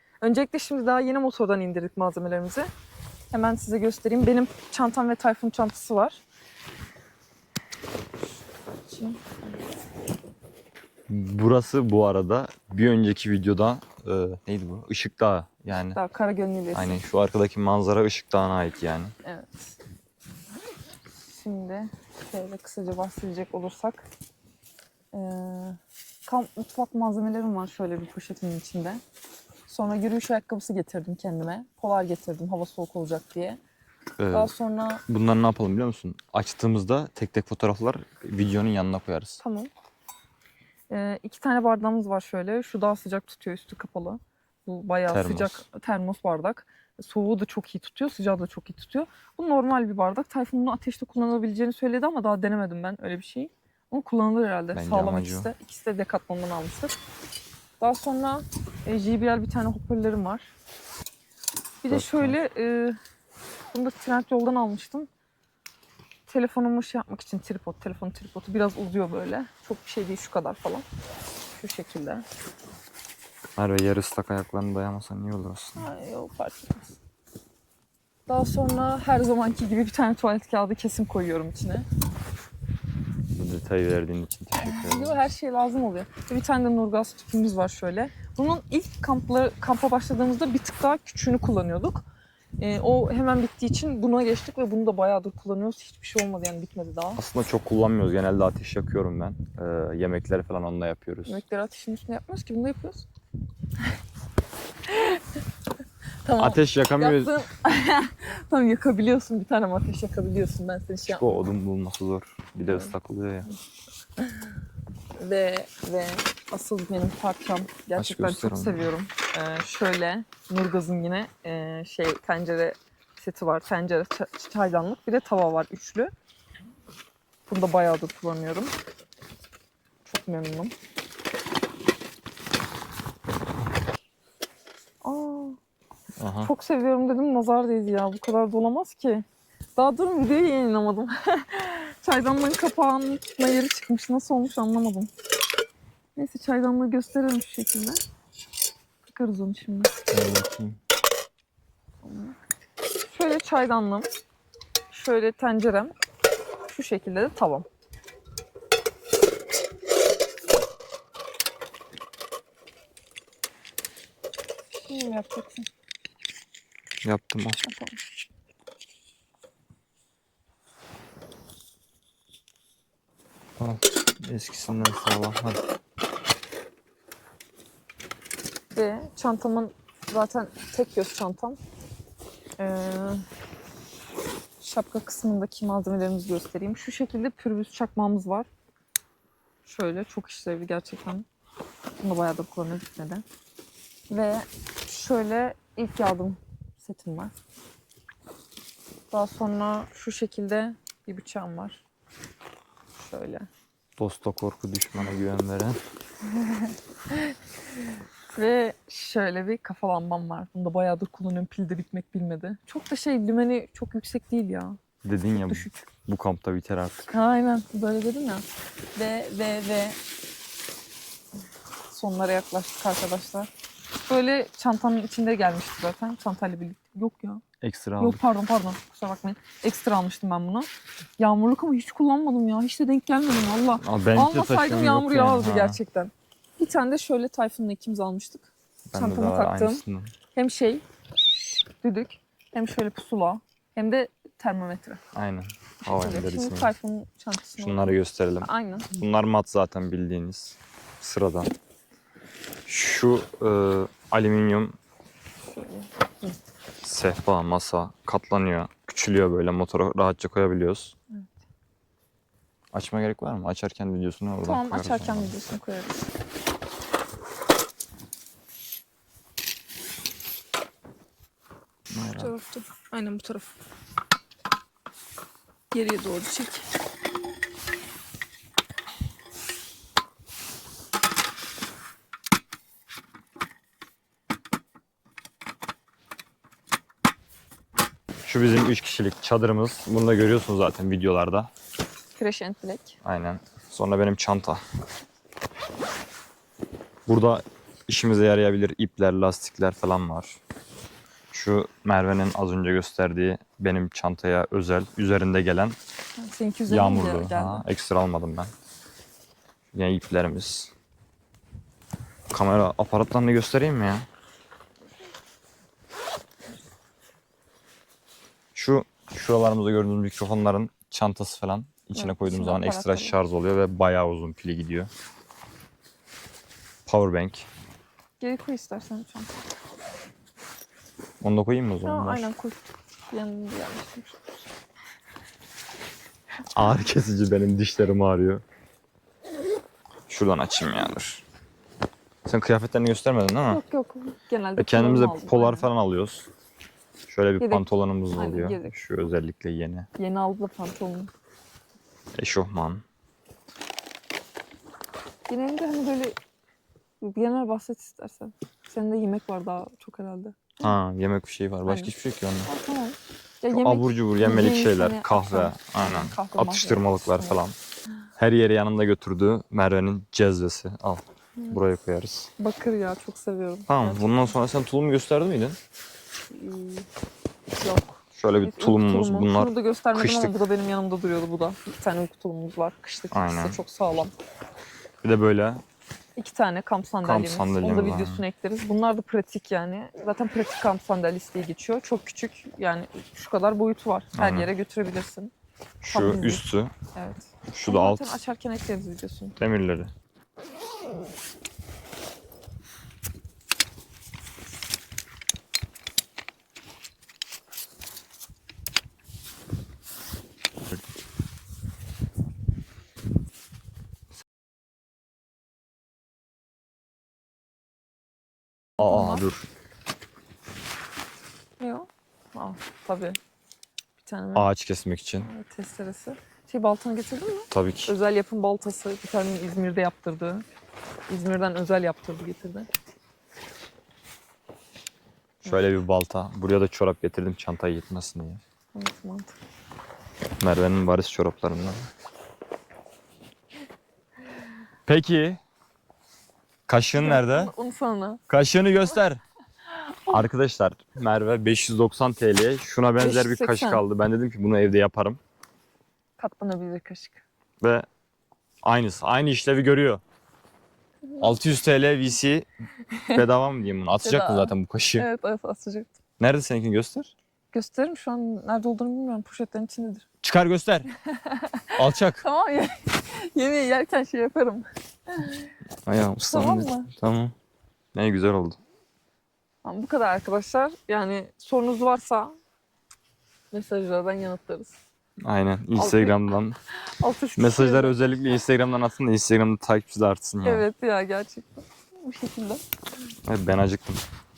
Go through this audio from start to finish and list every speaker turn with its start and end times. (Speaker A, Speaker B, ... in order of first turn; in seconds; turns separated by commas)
Speaker A: 0.2-2.7, Speaker A: 3.3-6.2, Speaker A: 8.9-9.2, Speaker B: 11.1-16.0, Speaker A: 15.7-17.0, Speaker B: 16.7-19.1, Speaker A: 19.2-19.7, Speaker A: 21.2-24.1, Speaker A: 25.1-29.0, Speaker A: 29.7-33.6, Speaker B: 34.2-34.5, Speaker A: 34.3-35.0, Speaker B: 35.1-39.4, Speaker A: 39.4-39.7, Speaker A: 40.9-56.9, Speaker B: 45.1-45.6, Speaker B: 54.7-55.5, Speaker A: 57.8-60.5, Speaker A: 61.8-63.0, Speaker B: 61.9-62.4, Speaker A: 63.7-65.1, Speaker A: 66.3-70.8, Speaker A: 71.5-72.2, Speaker B: 73.6-75.9, Speaker A: 75.8-76.9, Speaker A: 78.3-81.8, Speaker B: 83.3-85.2, Speaker A: 84.6-92.0, Speaker A: 92.6-97.2, Speaker B: 97.2-101.4, Speaker A: 101.2-103.0, Speaker A: 104.8-105.4, Speaker A: 106.2-111.2, Speaker B: 106.4-107.3, Speaker B: 111.1-113.5, Speaker A: 115.2-126.1, Speaker B: 118.0-118.9, Speaker A: 127.5-128.7, Speaker A: 130.0-130.7, Speaker A: 135.0-135.6, Speaker B: 136.2-136.5, Speaker A: 136.4-139.2, Speaker A: 139.8-145.1, Speaker A: 146.2-148.0, Speaker A: 149.1-149.9, Speaker B: 150.1-150.8, Speaker A: 152.0-152.3, Speaker A: 153.1-154.1, Speaker A: 154.9-155.9, Speaker A: 156.7-157.7, Speaker A: 164.9-165.7, Speaker B: 167.0-167.6, Speaker A: 167.6-168.0, Speaker B: 173.6-175.6, Speaker A: 178.7-181.6, Speaker A: 182.6-183.2, Speaker A: 184.6-188.5, Speaker A: 189.6-191.2, Speaker A: 192.0-193.2, Speaker A: 194.1-197.3, Speaker A: 199.1-201.8, Speaker A: 203.0-203.5, Speaker B: 204.0-205.8, Speaker A: 206.3-207.3, Speaker A: 208.3-214.8, Speaker B: 215.0-217.1, Speaker A: 215.5-215.8, Speaker A: 217.1-220.0, Speaker A: 221.9-223.5, Speaker A: 224.1-227.4, Speaker B: 227.6-228.2, Speaker A: 228.0-230.7, Speaker A: 231.2-239.8, Speaker B: 233.8-235.8, Speaker B: 238.9-240.1, Speaker A: 240.3-240.8, Speaker A: 241.8-245.0, Speaker B: 245.1-246.7, Speaker A: 245.8-248.9, Speaker B: 247.6-251.5, Speaker B: 252.7-254.8, Speaker A: 255.5-256.3, Speaker B: 256.8-260.9, Speaker B: 262.7-265.4, Speaker A: 264.4-266.1, Speaker B: 271.9-272.3, Speaker A: 272.2-273.5, Speaker A: 275.7-276.6, Speaker B: 288.2-291.5, Speaker A: 292.1-292.9, Speaker B: 293.0-294.6, Speaker B: 297.1-300.4, Speaker B: 301.3-305.8, Speaker A: 306.2-307.6, Speaker B: 306.7-308.5, Speaker B: 309.7-310.7, Speaker B: 312.3-314.0, Speaker B: 318.5-324.9, Speaker A: 321.9-323.2, Speaker B: 326.9-327.5, Speaker A: 328.2-329.3, Speaker B: 331.2-332.3, Speaker A: 331.8-332.6, Speaker A: 333.1-334.2, Speaker B: 336.5-338.4, Speaker B: 340.1-341.2, Speaker B: 342.2-343.6, Speaker A: 343.5-345.7, Speaker B: 344.6-346.3, Speaker B: 347.1-349.9, Speaker A: 347.4-348.7, Speaker A: 350.0-351.1, Speaker B: 352.1-352.8, Speaker A: 355.3-356.1, Speaker A: 357.0-360.7, Speaker B: 360.6-362.5, Speaker A: 361.6-361.9, Speaker A: 362.4-367.4, Speaker B: 363.5-367.6, Speaker B: 368.2-372.3, Speaker A: 372.4-374.2, Speaker B: 373.7-375.6, Speaker A: 376.3-376.9, Speaker A: 377.6-384.1, Speaker B: 378.1-380.4, Speaker B: 383.1-383.6, Speaker B: 385.0-385.6, Speaker A: 386.1-395.3, Speaker B: 387.0-388.2, Speaker B: 394.1-394.5, Speaker B: 395.8-396.7, Speaker A: 395.9-396.4, Speaker A: 396.9-399.4, Speaker B: 397.5-398.2, Speaker B: 399.4-399.9, Speaker A: 418.8-419.2, Speaker B: 418.8-419.4, Speaker A: 421.6-423.2, Speaker A: 424.0-424.5, Speaker B: 424.3-425.3, Speaker A: 425.2-430.4, Speaker B: 427.5-427.9, Speaker A: 431.1-432.7, Speaker B: 435.4-438.4, Speaker A: 438.7-439.4, Speaker B: 440.4-441.8, Speaker B: 444.9-445.4, Speaker B: 446.7-447.5, Speaker A: 447.0-448.2, Speaker B: 448.3-449.2, Speaker B: 450.1-455.2, Speaker A: 453.0-453.8, Speaker A: 456.2-457.2, Speaker B: 457.6-457.9, Speaker B: 458.6-460.0, Speaker B: 461.2-462.5, Speaker A: 462.9-463.2, Speaker B: 463.1-465.1, Speaker A: 464.0-465.9, Speaker B: 466.2-467.1, Speaker A: 467.5-470.0, Speaker B: 470.2-470.9, Speaker A: 471.1-475.5, Speaker B: 471.8-472.2, Speaker B: 475.8-477.3, Speaker A: 476.3-476.9, Speaker B: 477.9-478.6, Speaker A: 479.6-482.3, Speaker A: 483.5-484.7, Speaker B: 485.2-486.6, Speaker A: 485.7-486.2, Speaker A: 486.9-488.0, Speaker B: 487.4-490.7, Speaker A: 490.4-492.6, Speaker B: 493.3-494.0